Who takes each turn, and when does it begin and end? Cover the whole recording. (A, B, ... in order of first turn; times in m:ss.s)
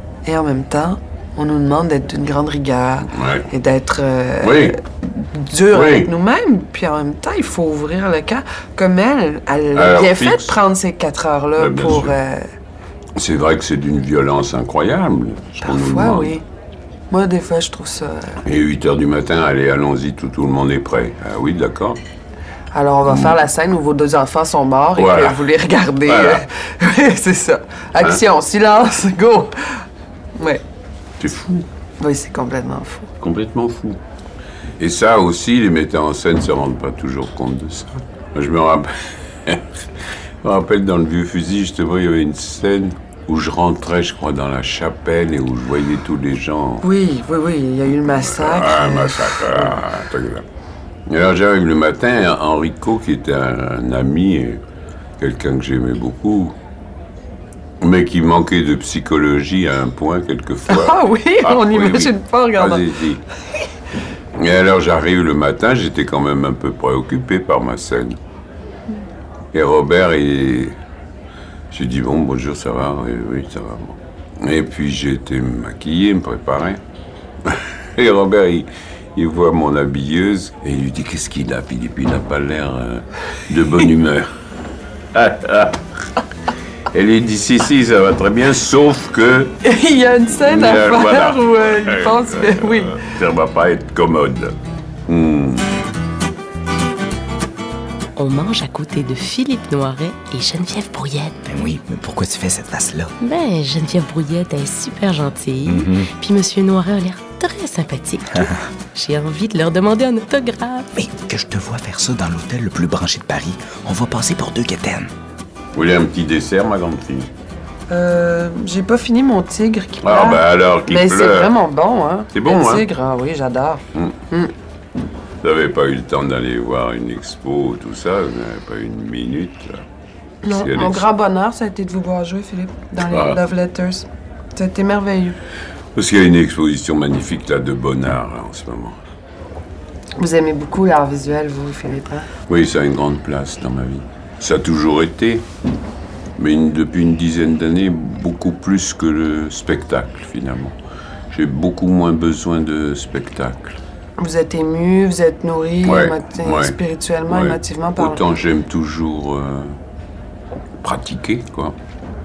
0:00.2-0:12.5 A
0:03.1-0:03.5 B
0:04.4-0:04.8 B
0:05.7-0:06.1 B
0:09.7-0:10.6 B
0:11.6-0:12.1 B
0:13.2-0:16.3 B
0:15.6-0:16.4 A
0:17.1-0:18.4 A
0:18.4-0:22.0 B
0:22.7-0:29.8 A
0:23.1-0:23.3 B
0:25.0-0:25.4 B
0:26.0-0:26.4 B
0:30.4-0:30.6 A
0:31.2-0:31.6 B
0:32.0-0:33.1 A
0:33.2-0:34.0 B
0:34.8-0:39.8 B
0:40.4-0:46.8 B
0:46.8-0:49.8 A
0:48.0-0:50.4 B
0:51.1-0:54.6 B
0:55.2-0:56.5 B
0:57.8-1:03.2 B
1:00.7-1:02.9 A
1:04.4-1:08.2 B
1:09.5-1:10.7 B
1:11.7-1:16.8 B
1:17.4-1:24.3 B
1:25.1-1:25.9 B
1:26.9-1:29.6 B
1:29.6-1:33.0 A
1:30.4-1:34.6 B
1:35.1-1:35.6 B
1:38.2-1:41.4 C
1:41.4-1:43.1 D
1:43.2-1:50.9 C
1:45.6-1:46.1 D
1:50.9-1:55.1 D
1:55.7-1:57.3 B
1:57.9-2:04.5 A
2:00.0-2:01.5 B
2:02.3-2:02.9 B
2:05.4-2:09.8 B
2:10.4-2:15.4 A
2:10.5-2:11.0 B
2:13.1-2:13.4 B
2:15.9-2:19.0 B
2:20.2-2:22.3 A
2:22.5-2:25.4 B
2:26.4-2:30.7 B
2:31.3-2:33.8 B
2:34.2-2:38.2 A
2:35.8-2:36.8 B
2:37.3-2:39.8 B
2:40.8-2:41.8 B